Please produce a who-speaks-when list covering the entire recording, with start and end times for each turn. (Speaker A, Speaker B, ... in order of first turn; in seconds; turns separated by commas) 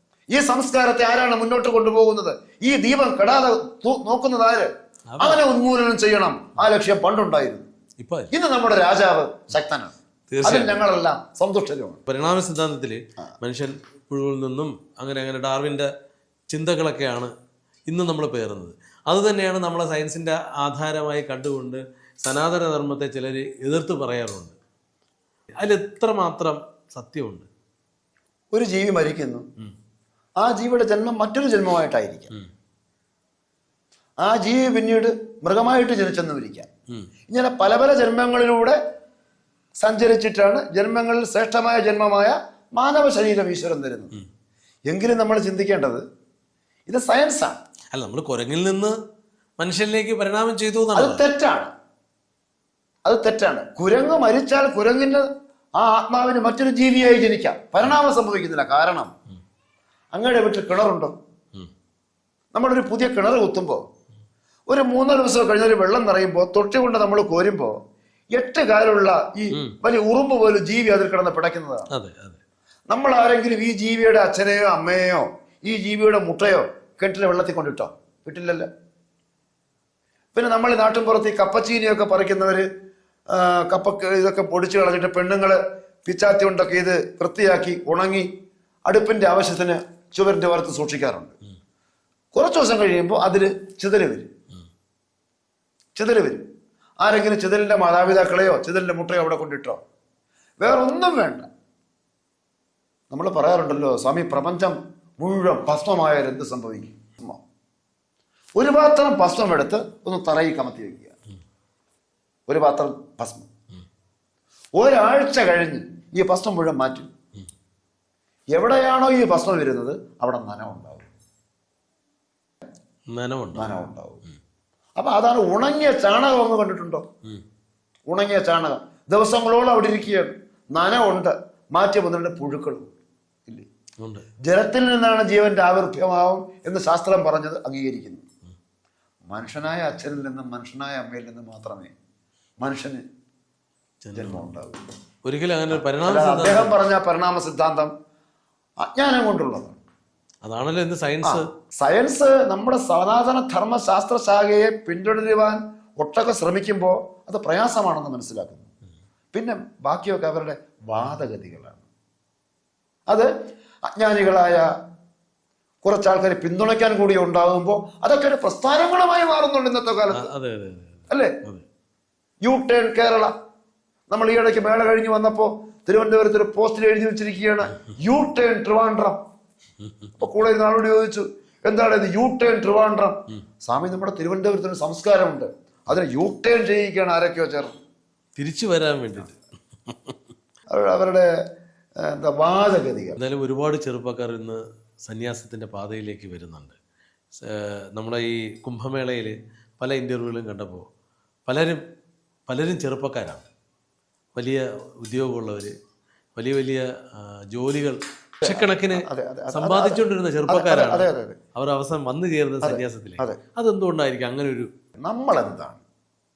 Speaker A: 0.3-7.7, Speaker B: 5.1-5.4, Speaker B: 8.0-8.3, Speaker A: 8.3-12.0, Speaker B: 10.3-10.8, Speaker B: 12.1-15.9, Speaker B: 16.5-17.3, Speaker B: 17.9-24.6, Speaker B: 25.6-27.5, Speaker A: 28.5-29.4, Speaker A: 30.4-32.3, Speaker A: 34.2-36.7, Speaker A: 37.3-38.8, Speaker A: 39.8-44.1, Speaker A: 44.9-46.0, Speaker A: 46.9-47.6, Speaker B: 47.9-49.0, Speaker B: 49.6-51.2, Speaker A: 51.0-51.7, Speaker A: 53.0-59.1, Speaker A: 60.1-61.1, Speaker A: 62.5-63.8, Speaker A: 64.7-67.8, Speaker A: 68.3-71.9, Speaker B: 71.9-72.4, Speaker A: 72.9-78.7, Speaker A: 80.3-82.7, Speaker A: 83.3-88.3, Speaker A: 88.9-91.3, Speaker A: 92.3-94.3, Speaker A: 96.0-96.4, Speaker A: 97.0-99.8, Speaker A: 100.6-101.5, Speaker A: 103.1-107.4, Speaker A: 108.6-111.1, Speaker A: 112.5-113.5, Speaker A: 114.8-117.1, Speaker A: 118.5-121.1, Speaker B: 123.1-123.8, Speaker A: 123.5-124.2, Speaker A: 125.0-127.0, Speaker A: 128.1-132.9, Speaker A: 134.5-138.3, Speaker A: 139.3-141.9, Speaker A: 142.6-143.0, Speaker B: 144.0-144.5, Speaker A: 144.2-144.8, Speaker B: 145.2-146.8, Speaker A: 145.7-147.9, Speaker A: 148.8-149.8, Speaker B: 150.4-151.5, Speaker A: 151.2-158.7, Speaker A: 159.3-161.8, Speaker A: 163.9-164.7, Speaker A: 165.8-170.3, Speaker B: 170.1-171.6, Speaker A: 172.4-173.3, Speaker A: 174.1-179.2, Speaker A: 180.2-187.7, Speaker B: 188.4-190.1, Speaker A: 190.7-191.3, Speaker A: 192.0-193.2, Speaker B: 193.2-196.8, Speaker B: 197.3-200.9, Speaker B: 201.5-201.8, Speaker B: 202.5-203.4, Speaker B: 204.3-205.7, Speaker B: 206.4-214.7, Speaker A: 208.4-211.4, Speaker A: 212.6-213.4, Speaker A: 215.0-215.8